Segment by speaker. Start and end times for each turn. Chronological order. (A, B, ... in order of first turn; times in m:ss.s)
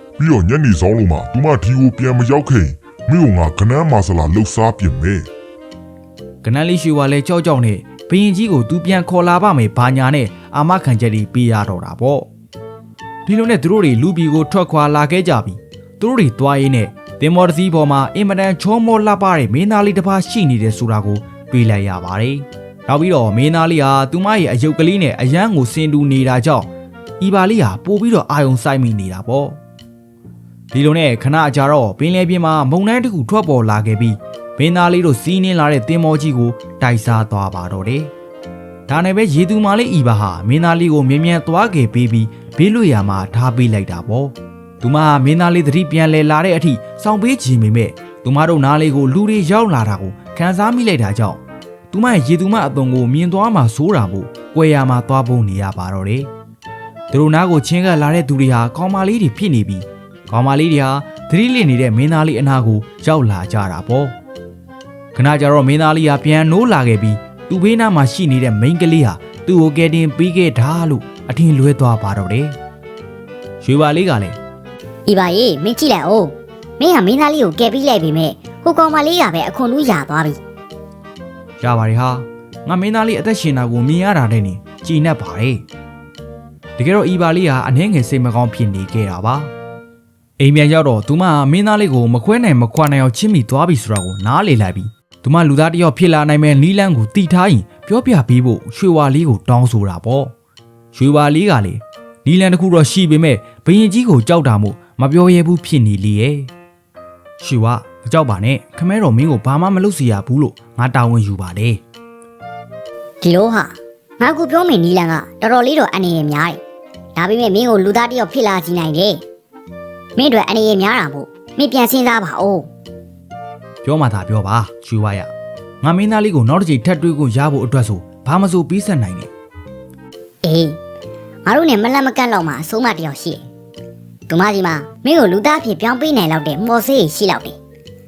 0:00.2-0:05.3 A
0:06.4-0:12.3 B
0:13.3-0:26.7 B
0:27.2-0:29.6 B
0:30.7-0:38.1 B
0:38.9-0:56.3 B
0:57.1-1:04.2 B
1:05.2-1:12.5 B
1:13.6-1:14.4 B
1:15.1-1:20.4 C
1:21.6-1:25.6 B
1:26.8-1:29.5 B
1:30.4-1:40.3 B
1:40.9-1:46.5 B
1:47.4-1:51.8 B
1:53.2-1:56.6 C
1:57.2-1:59.2 C
2:00.2-2:02.7 C
2:03.8-2:05.3 B
2:05.8-2:09.3 B
2:10.4-2:10.8 C
2:11.5-2:13.4 C
2:14.3-2:17.6 C